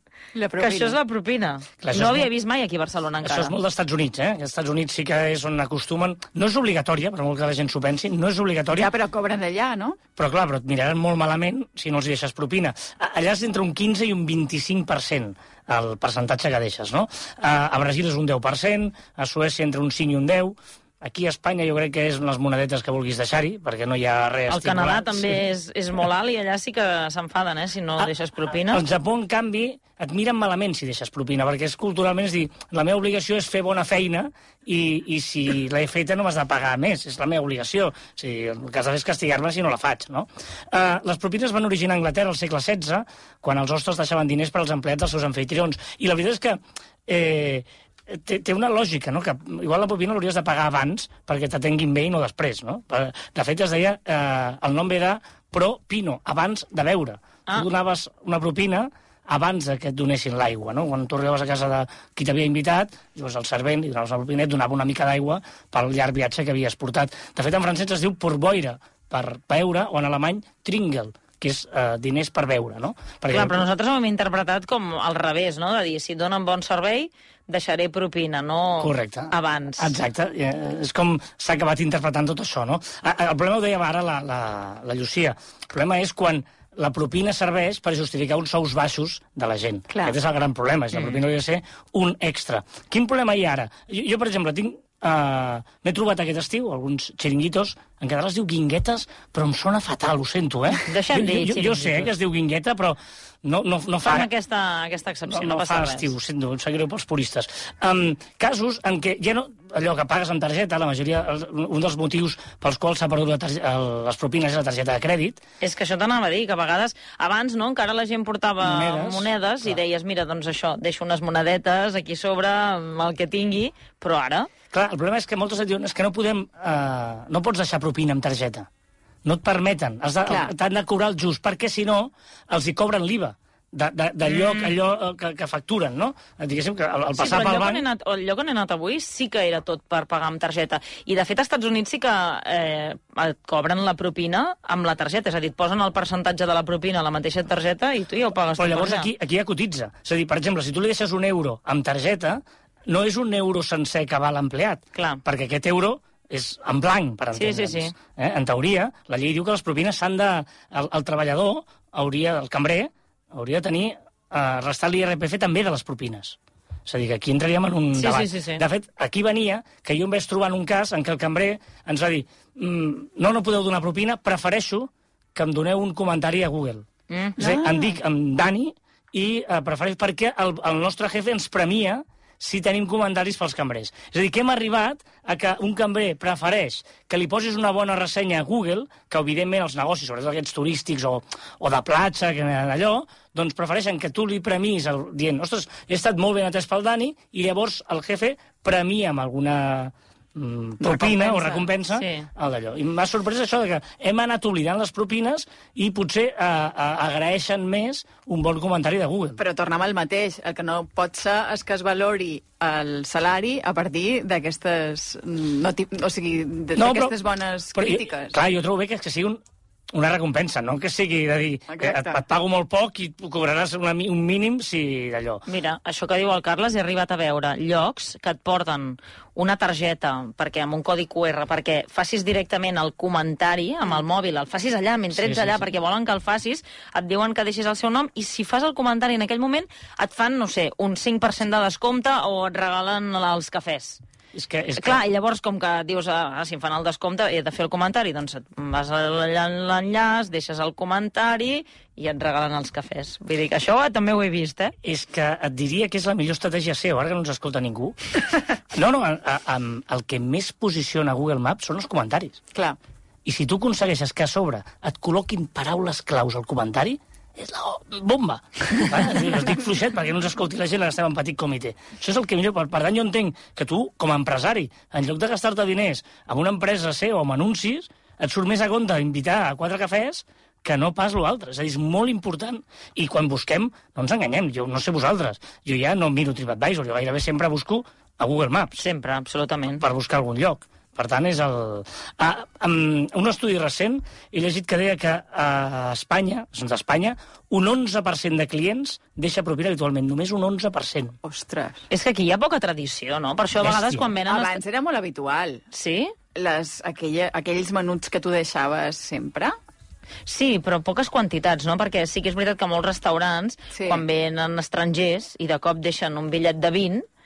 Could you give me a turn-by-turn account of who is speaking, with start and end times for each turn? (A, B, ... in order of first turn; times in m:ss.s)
0:00.3-0:01.0 A
0:00.6-0:03.6 B
0:01.8-0:02.3 C
0:03.2-0:08.9 C
0:08.7-0:10.0 A
0:10.2-0:25.4 C
0:24.5-0:28.8 B
0:28.0-1:13.7 C
1:13.3-1:20.0 B
1:18.8-1:44.3 C
1:29.9-1:30.2 A
1:40.7-1:42.1 B
1:44.0-1:46.1 B
1:45.3-1:55.4 C
1:55.6-2:04.5 B
1:58.6-1:59.8 C
2:04.7-2:08.7 C
2:09.2-2:17.8 C
2:10.3-2:10.5 A
2:14.2-2:14.8 B
2:17.2-2:29.1 B
2:28.6-2:56.9 C
2:34.9-2:35.2 B
2:37.3-2:37.9 B
2:48.0-2:48.6 B
2:57.1-2:57.4 B
2:57.4-2:58.0 A
2:57.4-3:29.4 C
3:20.8-3:21.7 A
3:21.9-3:22.3 B
3:29.4-3:38.4 A
3:36.8-3:37.2 C
3:37.7-3:39.4 C
3:39.9-3:45.4 C
3:41.7-3:42.2 A
3:45.5-4:04.0 B
3:55.1-3:55.6 C
4:04.3-4:05.0 C
4:04.8-4:14.7 B
4:14.8-4:18.2 C
4:18.7-4:22.4 C
4:23.2-4:48.8 C
4:48.8-4:49.8 B
4:49.8-5:01.2 C
5:01.2-5:01.9 A
5:01.9-5:04.6 B
5:03.6-5:04.1 C
5:04.2-5:05.6 A
5:05.7-5:06.1 B
5:06.4-5:09.5 A
5:10.2-5:17.0 B
5:13.7-5:14.0 A